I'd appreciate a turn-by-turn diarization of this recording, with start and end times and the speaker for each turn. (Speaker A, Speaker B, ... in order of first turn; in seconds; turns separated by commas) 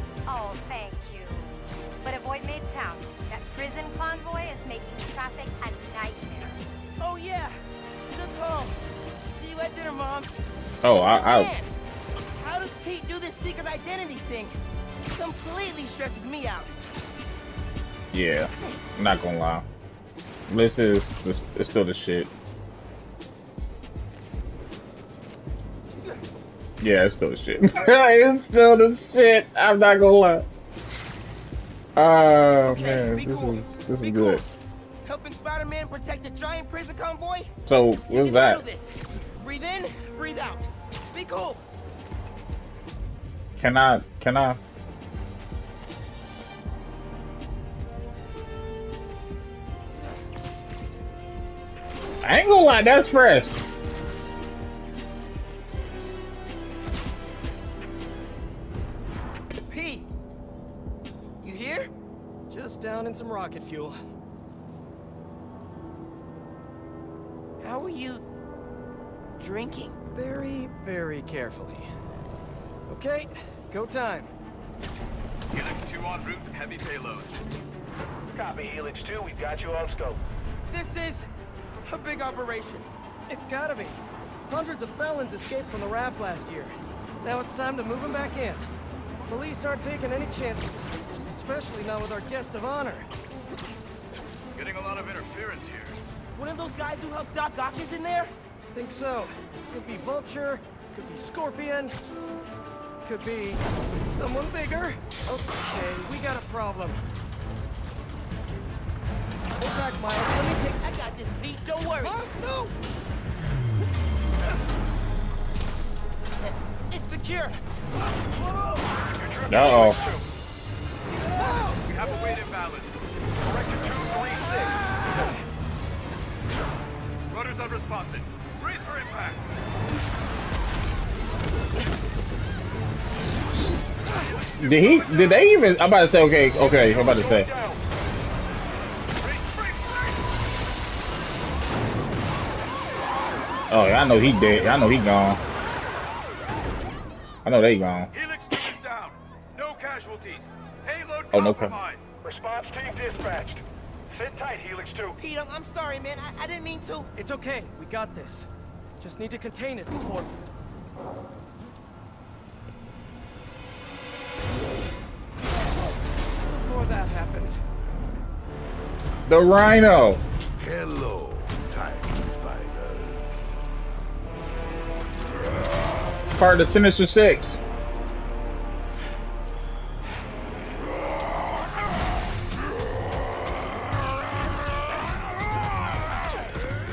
Speaker A: 0.3-6.6, Speaker B: 7.0-7.6, Speaker B: 8.1-8.8, Speaker B: 9.4-10.3, Speaker C: 10.8-11.5, Speaker B: 11.0-14.6, Speaker B: 15.1-16.7, Speaker C: 18.1-19.7, Speaker C: 20.5-22.3, Speaker C: 26.8-30.5, Speaker C: 32.0-34.4, Speaker B: 32.6-34.5, Speaker B: 35.0-37.5, Speaker C: 37.7-38.6, Speaker B: 38.1-41.6, Speaker C: 43.6-44.6, Speaker C: 52.2-53.6, Speaker B: 59.7-60.1, Speaker B: 61.4-61.9, Speaker D: 62.5-64.0, Speaker B: 67.6-68.2, Speaker B: 69.4-70.0, Speaker D: 70.1-71.9, Speaker D: 72.9-74.3, Speaker E: 75.5-77.4, Speaker F: 78.3-80.2, Speaker B: 80.7-81.3, Speaker B: 81.8-82.9, Speaker D: 83.3-88.7, Speaker D: 89.3-93.1, Speaker E: 94.5-96.0, Speaker B: 96.3-98.3, Speaker D: 98.7-102.0, Speaker D: 103.0-107.0, Speaker D: 109.6-110.8, Speaker B: 110.8-112.2, Speaker D: 112.0-112.7, Speaker B: 116.4-117.6, Speaker F: 119.2-120.2, Speaker C: 119.5-120.0, Speaker E: 121.3-123.0, Speaker F: 123.4-124.7, Speaker E: 123.8-124.6, Speaker E: 127.3-129.5, Speaker E: 134.2-135.3, Speaker C: 134.6-137.5, Speaker F: 136.6-137.8, Speaker E: 139.2-140.2, Speaker C: 143.7-145.4, Speaker C: 147.4-148.1, Speaker E: 148.1-152.1, Speaker C: 151.3-151.7, Speaker F: 152.2-155.2, Speaker B: 155.2-157.1, Speaker D: 157.2-158.5, Speaker D: 159.0-160.3, Speaker D: 166.5-167.6, Speaker C: 169.3-170.2, Speaker G: 170.6-173.5, Speaker C: 176.4-177.6